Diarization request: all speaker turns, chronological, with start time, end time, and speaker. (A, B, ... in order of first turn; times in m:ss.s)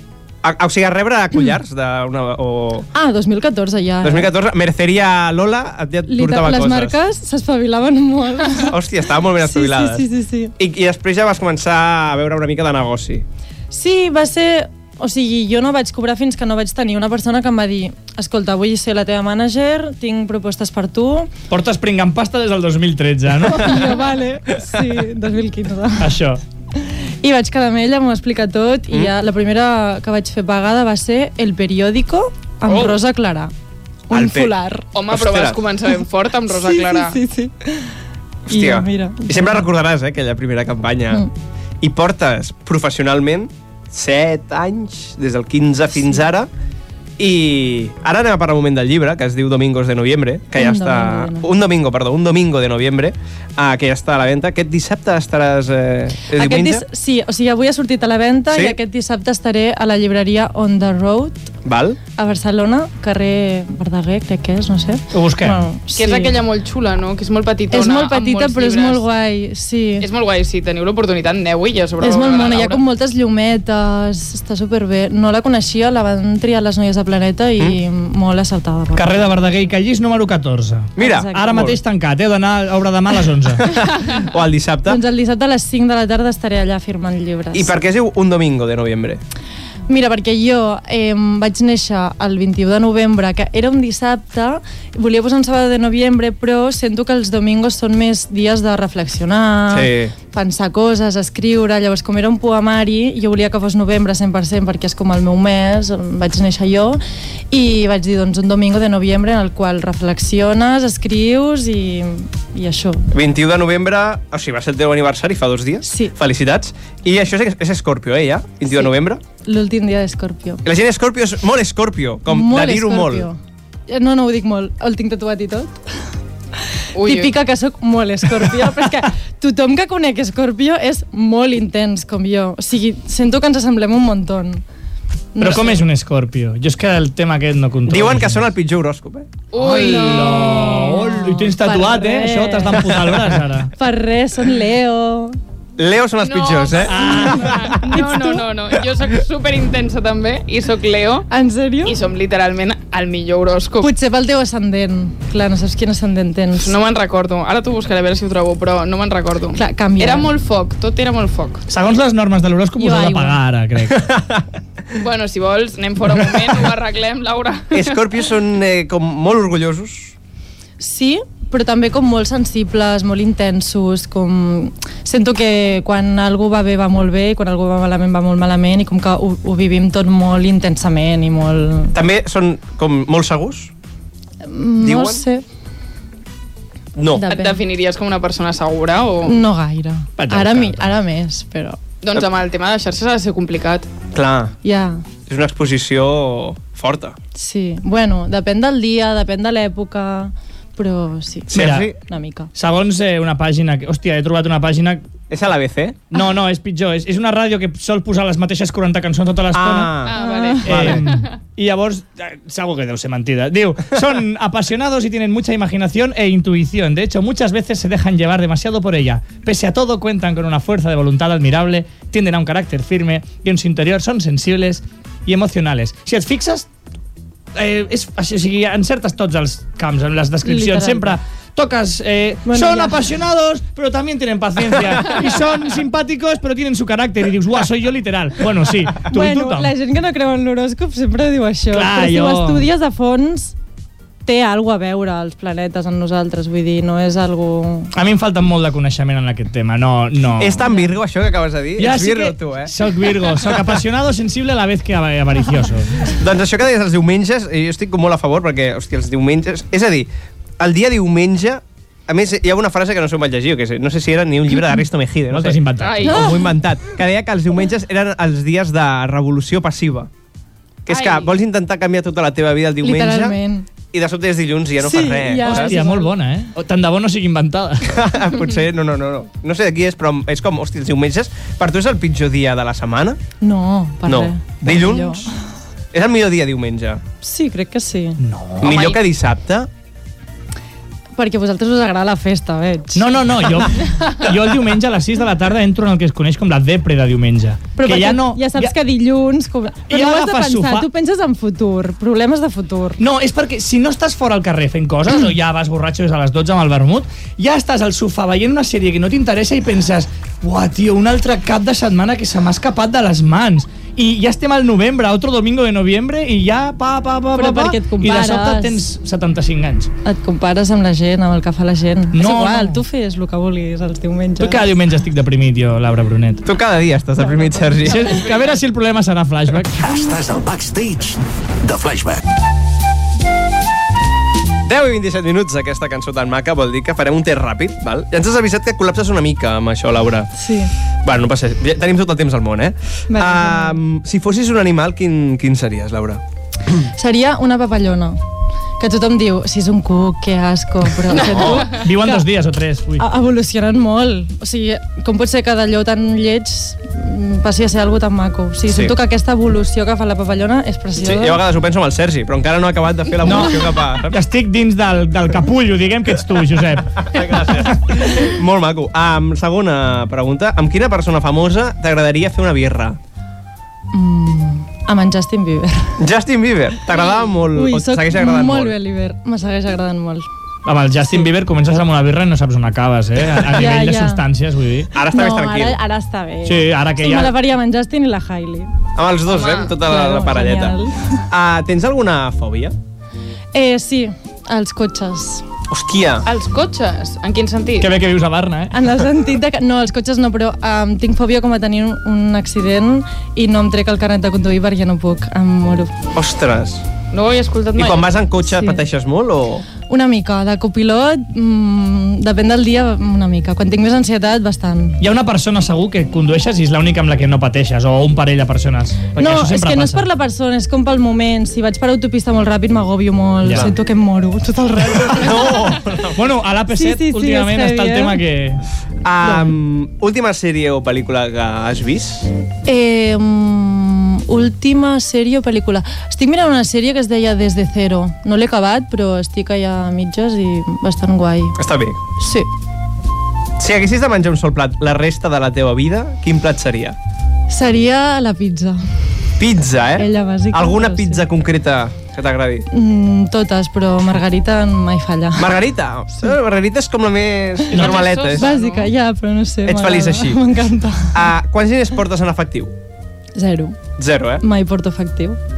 0:00.4-0:02.9 A
0:02.9-0:04.3 B
0:04.0-0:07.0 A
0:06.1-0:08.8 B
0:08.5-0:10.1 A
0:09.4-0:10.5 B
0:10.6-0:13.2 A
0:13.7-0:21.3 B
0:21.5-0:24.0 C
0:23.4-0:26.2 B
0:26.0-0:26.4 C
0:26.8-0:33.5 B
0:32.7-0:33.0 D
0:34.1-0:34.9 B
0:34.1-0:34.5 A
0:35.0-0:37.2 D
0:35.1-0:35.6 A
0:36.5-0:37.9 B
0:38.5-0:41.3 A
0:38.5-0:39.7 B
0:41.8-0:46.5 A
0:47.2-0:56.8 A
0:50.6-0:51.5 B
0:56.3-1:01.5 B
0:58.5-0:58.8 A
1:01.6-1:02.0 A
1:02.2-1:06.4 B
1:05.1-1:05.6 C
1:06.0-1:09.0 D
1:07.7-1:10.1 B
1:10.0-1:12.8 D
1:12.0-1:19.3 B
1:19.0-1:23.7 C
1:21.0-1:21.8 A
1:21.0-1:21.7 B
1:23.7-1:25.0 A
1:24.8-1:27.8 B
1:27.5-1:29.2 A
1:29.9-1:53.1 B
1:39.7-1:40.1 A
1:53.1-1:59.2 A
1:55.8-1:56.1 B
1:59.4-2:00.6 B
2:00.6-2:03.3 A
2:02.3-2:05.8 B
2:06.8-2:14.6 B
2:07.0-2:07.3 D
2:15.4-2:15.8 B
2:15.4-2:18.5 C
2:17.9-2:19.4 A
2:19.5-2:20.9 D
2:19.6-2:23.7 C
2:19.7-2:23.1 B
2:22.9-2:23.4 A
2:23.8-2:25.4 B
2:25.8-2:27.6 A
2:26.2-2:31.3 D
2:26.9-2:27.6 C
2:27.0-2:28.5 B
2:31.3-2:32.0 B
2:31.8-2:33.9 D
2:33.8-2:36.8 B
2:36.6-2:41.7 D
2:39.6-2:40.3 B
2:41.7-2:44.1 C
2:42.8-2:43.4 B
2:43.9-2:44.4 A
2:44.9-2:48.0 D
2:47.7-2:50.1 A
2:50.8-3:02.0 B
3:01.9-3:03.7 A
3:04.4-3:05.4 B
3:04.8-3:05.2 A
3:07.0-3:07.3 A
3:07.1-3:07.6 B
3:07.3-3:09.4 D
3:09.2-3:11.8 B
3:10.2-3:10.9 C
3:12.0-3:13.9 D
3:14.1-3:14.6 A
3:14.6-3:15.0 B
3:15.3-3:17.2 A
3:17.4-3:22.5 B
3:21.5-3:22.0 A
3:21.5-3:21.9 C
3:22.6-3:25.0 C
3:25.3-3:26.0 A
3:26.1-3:30.0 C
3:29.5-3:31.1 A
3:30.0-3:31.3 D
3:30.2-3:31.0 B
3:30.6-3:46.7 C
3:47.6-3:59.7 C
3:50.4-3:51.2 B
3:52.5-3:53.1 B
3:59.1-4:03.6 B
4:01.7-4:02.7 C
4:04.2-4:07.9 B
4:07.9-4:10.7 C
4:10.4-4:12.7 A
4:11.8-4:16.1 C
4:13.4-4:13.8 A
4:16.1-4:30.1 A
4:25.3-4:26.1 C
4:25.8-4:26.4 D
4:26.0-4:26.5 B
4:30.9-4:33.4 A
4:30.9-4:31.3 D
4:32.8-4:33.7 B
4:33.9-4:35.8 A
4:34.8-4:36.1 B
4:35.4-4:38.0 C
4:37.8-4:43.2 A
4:43.4-4:45.4 B
4:44.1-4:45.3 A
4:45.9-4:47.0 A
4:47.2-4:48.2 B
4:48.2-4:48.8 C
4:48.6-4:49.7 A
4:48.6-4:49.0 D
4:51.2-4:54.0 B
4:53.0-4:58.7 C
4:57.8-5:03.0 B
4:59.9-5:00.9 C
5:03.0-5:19.9 C
5:17.3-5:18.8 B
5:20.0-5:24.7 B
5:22.1-5:22.8 C
5:24.4-5:26.5 C
5:26.4-5:28.2 A
5:27.4-5:27.7 B
5:27.8-5:30.0 C
5:29.8-5:32.2 E
5:34.6-5:40.3 A
5:40.4-5:40.7 B
5:41.0-5:46.2 A
5:43.1-5:43.8 B
5:46.9-5:48.2 B
5:48.8-5:52.3 B
5:51.1-5:51.7 A
5:51.4-5:53.0 C
5:53.0-6:01.4 B
5:58.7-5:59.0 A
6:01.0-6:04.2 A
6:03.2-6:07.5 C
6:07.0-6:13.0 A
6:13.9-6:16.0 B
6:16.0-6:18.7 A
6:17.5-6:20.3 B
6:20.6-6:24.9 C
6:23.5-6:24.2 B
6:24.9-6:25.8 A
6:25.0-6:28.7 B
6:26.4-6:27.3 C
6:29.0-6:30.8 A
6:29.3-6:29.7 D
6:29.8-6:31.3 B
6:31.3-6:32.8 A
6:33.5-6:35.4 B
6:35.7-6:36.3 A
6:36.2-6:37.9 D
6:37.8-6:38.7 C
6:38.7-6:46.0 B
6:46.1-6:46.8 A
6:47.1-6:48.1 D
6:47.8-6:49.7 A
6:48.4-6:48.8 B
6:49.9-6:55.0 B
6:55.0-7:00.1 C
6:59.2-7:05.8 B
7:03.4-7:03.7 C
7:04.9-7:06.4 A
7:06.1-7:08.6 C
7:06.7-7:08.2 B
7:09.0-7:12.3 A
7:09.2-7:09.5 B
7:12.6-7:21.6 B
7:21.6-7:22.0 A
7:22.2-7:22.5 B
7:23.6-7:27.0 A
7:27.5-7:28.8 B
7:29.4-7:32.7 A
7:29.9-7:31.3 B
7:32.7-7:35.6 B
7:35.4-7:38.5 A
7:37.7-7:38.9 D
7:37.7-7:38.1 C
7:38.3-7:41.2 B
7:39.6-7:40.4 A
7:41.1-7:42.7 A
7:43.4-7:43.8 B
7:44.0-7:44.4 A
7:44.4-7:45.4 B